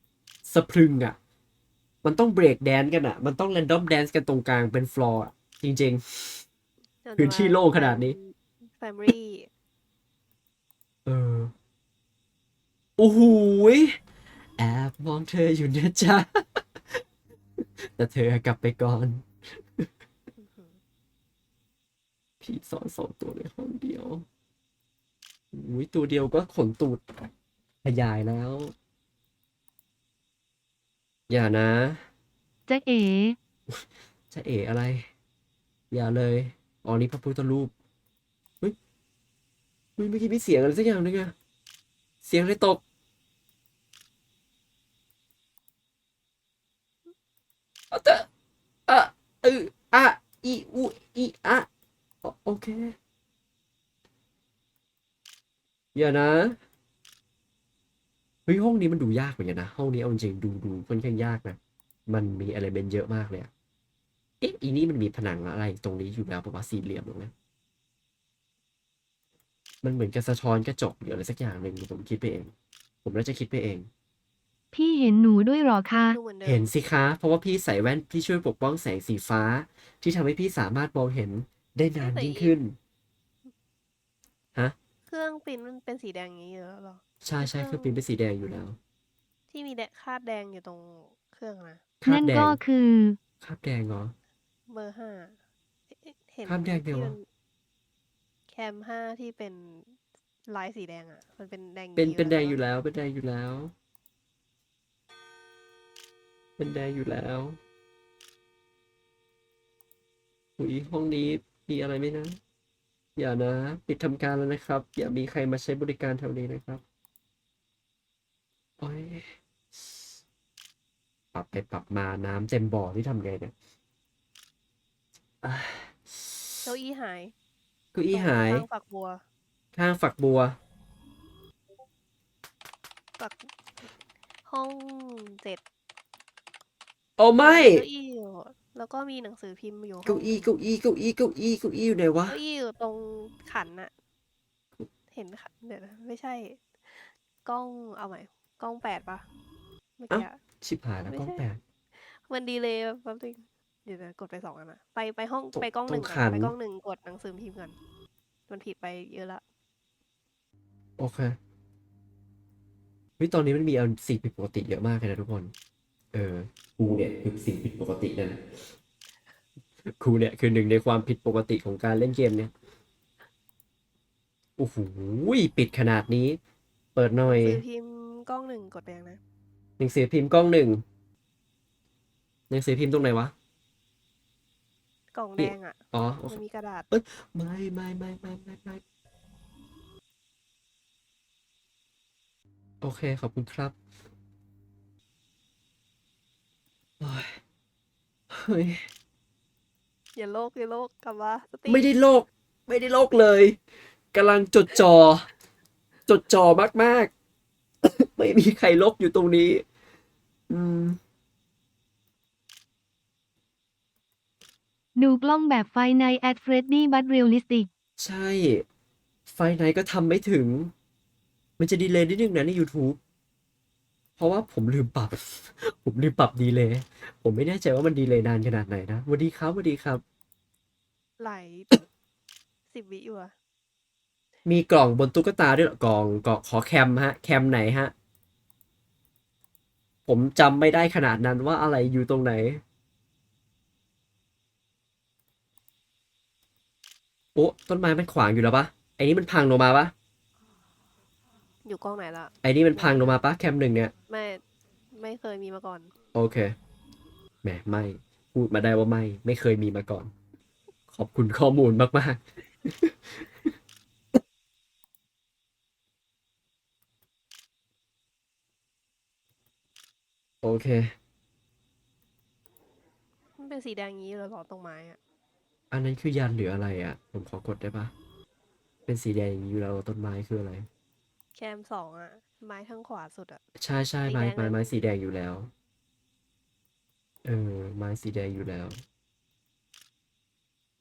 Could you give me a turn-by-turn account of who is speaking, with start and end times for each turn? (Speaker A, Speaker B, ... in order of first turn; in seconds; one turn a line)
Speaker A: 0.5-1.2
Speaker A: 2.0-6.5
Speaker B: 7.0-9.5
Speaker A: 7.2-8.2
Speaker A: 11.1-11.5
Speaker A: 13.0-14.0
Speaker A: 14.6-17.0
Speaker A: 17.8-19.3
Speaker B: 20.4-20.8
Speaker A: 22.4-24.3
Speaker A: 25.5-27.0
Speaker A: 27.8-28.7
Speaker A: 31.3-32.0
Speaker C: 32.7-33.4
Speaker A: 33.7-35.1
Speaker A: 35.9-37.7
Speaker A: 40.0-41.3
Speaker A: 42.2-42.8
Speaker A: 47.9-48.3
Speaker A: 48.9-51.7
Speaker A: 52.2-53.0
Speaker A: 56.0-56.6
Speaker A: 58.5-63.5
Speaker A: 64.4-67.3
Speaker A: 69.8-72.5
Speaker A: 73.0-73.9
Speaker C: 74.7-76.2
Speaker B: 76.1-76.7
Speaker A: 76.4-82.8
Speaker B: 82.0-82.6
Speaker B: 85.1-88.0
Speaker A: 87.2-88.8
Speaker B: 89.5-91.8
Speaker A: 92.0-92.6
Speaker C: 92.1-93.2
Speaker A: 93.4-94.1
Speaker B: 94.7-95.4
Speaker B: 95.9-97.3
Speaker A: 96.5-97.2
Speaker B: 98.5-102.6
Speaker A: 102.0-103.7
Speaker A: 106.6-107.6
Speaker A: 110.6-112.4
Speaker A: 113.2-116.8
Speaker A: 118.8-120.0
Speaker A: 121.3-123.5
Speaker A: 125.4-126.7
Speaker B: 126.6-127.3
Speaker A: 127.9-128.7
Speaker B: 128.1-129.2
Speaker A: 129.8-130.6
Speaker B: 133.2-133.5
Speaker B: 134.5-135.6
Speaker A: 137.2-137.8
Speaker B: 137.4-140.5
Speaker A: 140.1-142.4
Speaker B: 142.3-143.9
Speaker B: 145.1-149.2
Speaker B: 150.0-150.4
Speaker A: 150.1-151.6
Speaker B: 151.1-151.4
Speaker B: 152.0-157.8
Speaker A: 155.6-156.5
Speaker B: 158.5-159.4
Speaker A: 161.0-161.4
Speaker A: 163.2-165.5
Speaker A: 166.1-168.4
Speaker A: 169.9-172.5
Speaker A: 174.6-176.4
Speaker A: 176.9-177.6
Speaker B: 177.2-179.2
Speaker A: 179.8-180.8
Speaker A: 182.5-183.3
Speaker B: 185.1-186.9
Speaker A: 185.4-186.4
Speaker A: 186.9-188.8
Speaker A: 192.8-193.8
Speaker A: 197.0-197.4
Speaker A: 198.3-198.9
Speaker B: 200.2-201.9
Speaker A: 201.7-203.6
Speaker A: 204.1-205.3
Speaker A: 206.1-207.1
Speaker A: 208.0-209.6
Speaker A: 210.5-211.0
Speaker C: 215.0-217.7
Speaker A: 218.0-218.7
Speaker A: 219.3-220.7
Speaker A: 221.6-223.0
Speaker A: 224.2-230.0
Speaker B: 231.2-231.8
Speaker B: 232.7-233.3
Speaker A: 234.4-237.9
Speaker A: 240.1-242.6
Speaker A: 247.3-249.9
Speaker B: 251.6-253.2
Speaker A: 252.4-253.9
Speaker B: 254.1-255.9
Speaker A: 256.1-256.6
Speaker A: 257.4-260.1
Speaker A: 260.9-263.5
Speaker A: 270.4-270.9
Speaker B: 273.4-275.0
Speaker A: 275.7-277.9
Speaker A: 278.9-280.7
Speaker B: 281.4-283.4
Speaker A: 283.6-285.5
Speaker B: 284.1-284.8
Speaker A: 287.2-288.8